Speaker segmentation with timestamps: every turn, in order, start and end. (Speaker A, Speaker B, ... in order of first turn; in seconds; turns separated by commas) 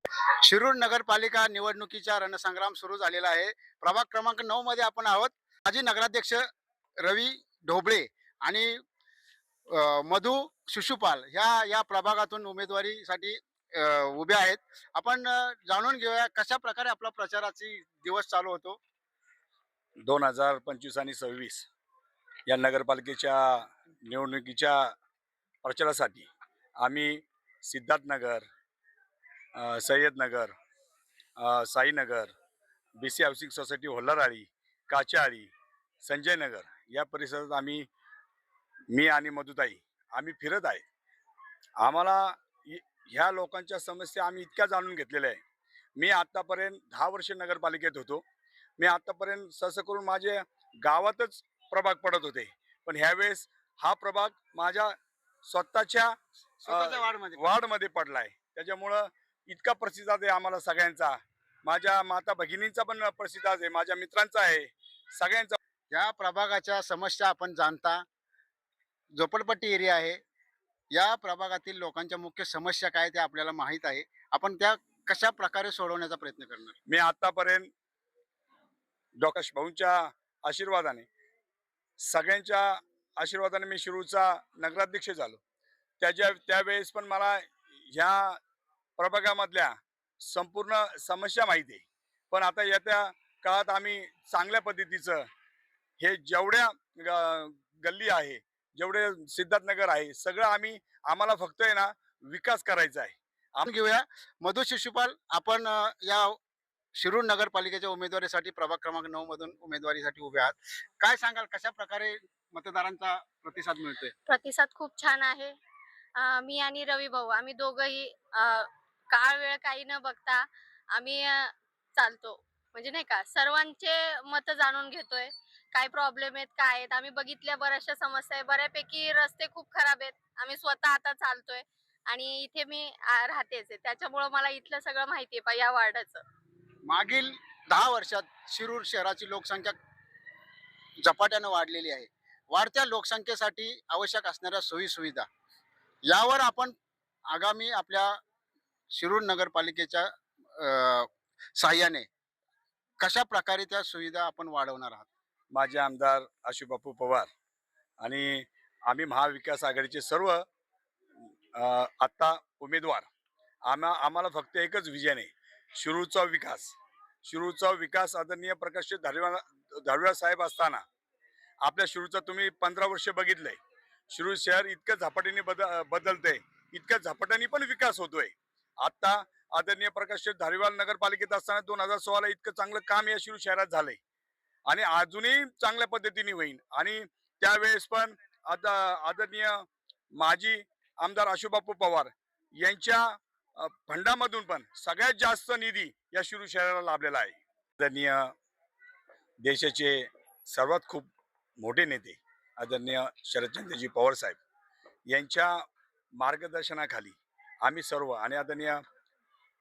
Speaker A: 0.4-6.4, Speaker A: 7.0-8.8, Speaker A: 9.7-18.8, Speaker B: 20.1-21.7, Speaker B: 22.4-24.9, Speaker B: 25.6-28.5, Speaker B: 29.5-30.5, Speaker B: 31.4-32.3, Speaker B: 33.0-37.9, Speaker B: 38.9-40.8, Speaker B: 41.8-45.4, Speaker B: 46.0-48.2, Speaker B: 48.8-65.6, Speaker A: 56.6-57.4, Speaker A: 65.9-68.0, Speaker A: 69.1-70.2, Speaker A: 70.9-76.8, Speaker B: 76.8-77.7, Speaker B: 79.2-81.1, Speaker B: 82.0-85.4, Speaker B: 86.0-88.4, Speaker B: 89.0-95.3, Speaker B: 96.0-103.7, Speaker A: 103.7-106.4, Speaker A: 106.9-114.1, Speaker C: 114.3-115.5, Speaker C: 116.2-136.2, Speaker A: 136.9-139.7, Speaker A: 141.0-145.2, Speaker A: 146.1-146.7, Speaker A: 147.3-148.1, Speaker A: 148.9-152.1, Speaker A: 153.0-155.1, Speaker B: 155.5-157.3, Speaker B: 158.0-160.4, Speaker B: 161.5-163.1, Speaker B: 163.6-170.8, Speaker B: 171.6-173.6, Speaker B: 174.1-184.0, Speaker B: 184.7-198.3, Speaker B: 199.4-204.4, Speaker B: 205.1-208.8